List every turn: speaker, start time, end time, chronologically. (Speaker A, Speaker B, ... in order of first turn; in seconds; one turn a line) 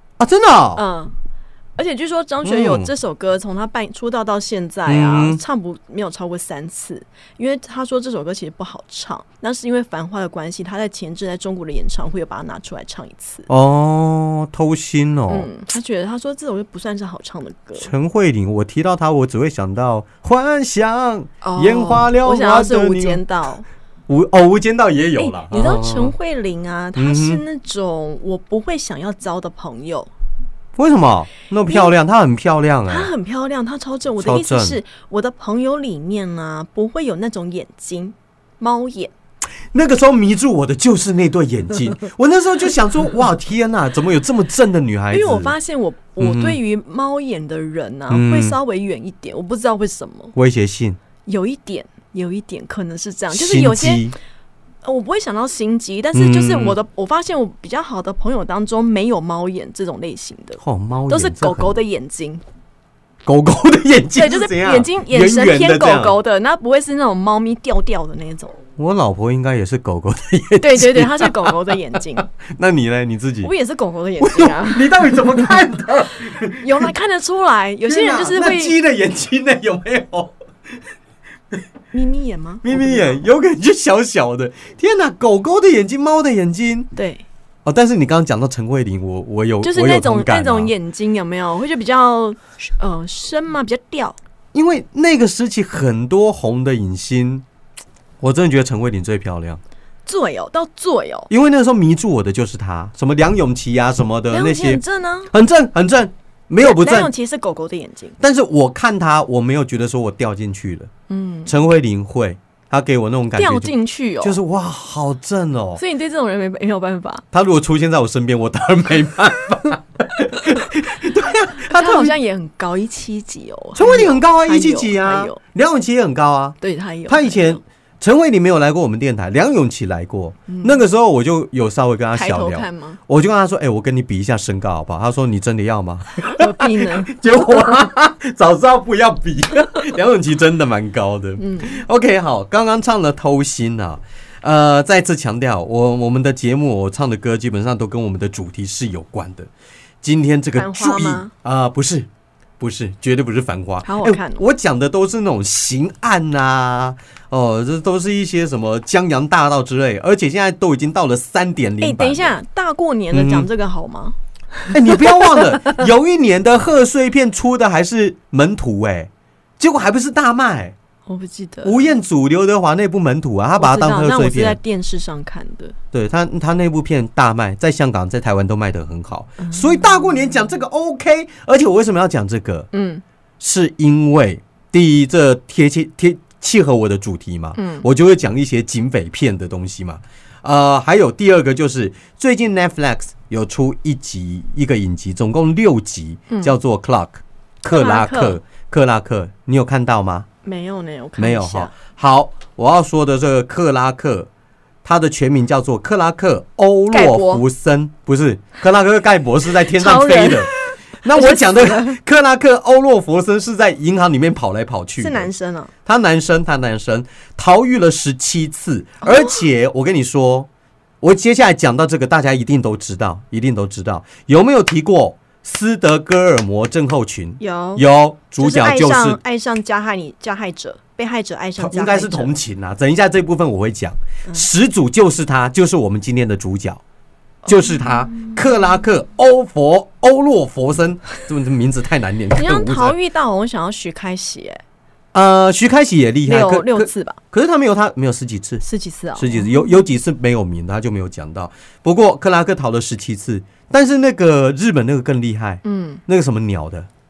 Speaker A: 0.2-0.8
Speaker B: 0.8-1.1
Speaker B: 1.8-13.5
Speaker A: 2.4-2.9
Speaker A: 4.9-5.4
Speaker A: 13.5-15.5
Speaker B: 15.3-17.9
Speaker A: 17.8-23.2
Speaker B: 21.4-23.6
Speaker A: 24.1-26.1
Speaker B: 25.2-30.1
Speaker A: 26.9-27.4
Speaker A: 30.8-33.1
Speaker B: 31.7-31.9
Speaker B: 32.9-39.1
Speaker A: 34.2-34.8
Speaker A: 39.7-45.5
Speaker B: 45.1-50.3
Speaker A: 46.2-46.6
Speaker A: 48.1-48.6
Speaker A: 50.3-51.0
Speaker B: 51.2-54.1
Speaker A: 53.3-54.1
Speaker B: 54.8-62.4
Speaker A: 56.1-56.8
Speaker A: 60.6-61.7
Speaker A: 63.2-66.2
Speaker B: 64.2-68.6
Speaker A: 68.8-73.5
Speaker B: 70.6-72.2
Speaker B: 73.4-75.5
Speaker A: 74.2-76.9
Speaker B: 76.6-78.7
Speaker A: 77.9-80.3
Speaker B: 81.9-83.2
Speaker A: 82.6-86.9
Speaker B: 86.9-87.2
Speaker A: 87.6-90.7
Speaker B: 89.6-94.2
Speaker A: 94.5-97.4
Speaker A: 98.2-99.6
Speaker B: 100.0-101.3
Speaker A: 101.3-107.1
Speaker B: 104.3-105.3
Speaker B: 106.6-108.2
Speaker A: 108.2-110.9
Speaker B: 111.1-111.5
Speaker A: 111.5-115.8
Speaker B: 113.3-114.4
Speaker B: 115.8-117.2
Speaker A: 117.3-122.1
Speaker B: 121.6-125.4
Speaker A: 123.7-126.5
Speaker B: 126.6-127.6
Speaker A: 127.1-149.5
Speaker B: 130.5-130.8
Speaker B: 132.1-133.0
Speaker B: 136.2-137.1
Speaker B: 141.4-141.8
Speaker A: 150.0-152.1
Speaker B: 150.5-151.3
Speaker A: 152.6-162.3
Speaker B: 153.8-154.4
Speaker B: 161.8-164.2
Speaker A: 163.1-163.4
Speaker A: 164.7-170.8
Speaker B: 164.9-165.4
Speaker B: 171.1-171.8
Speaker A: 171.6-174.6
Speaker B: 173.6-175.7
Speaker A: 175.9-182.7
Speaker B: 182.7-183.0
Speaker A: 183.4-200.2
Speaker B: 187.6-187.8
Speaker B: 196.3-196.5
Speaker B: 197.7-198.4
Speaker B: 200.4-201.7
Speaker A: 201.2-204.3
Speaker A: 204.8-215.3
Speaker B: 206.9-207.4
Speaker B: 209.6-212.0
Speaker B: 215.0-215.7
Speaker A: 215.8-220.5
Speaker B: 219.0-219.4
Speaker A: 221.0-229.2
Speaker B: 227.4-227.8
Speaker B: 228.4-232.3
Speaker A: 231.6-236.8
Speaker B: 237.4-238.4
Speaker A: 237.4-242.9
Speaker B: 242.3-244.6
Speaker A: 245.1-248.6
Speaker B: 246.2-247.2
Speaker B: 248.6-249.8
Speaker A: 249.2-256.9
Speaker B: 255.6-256.0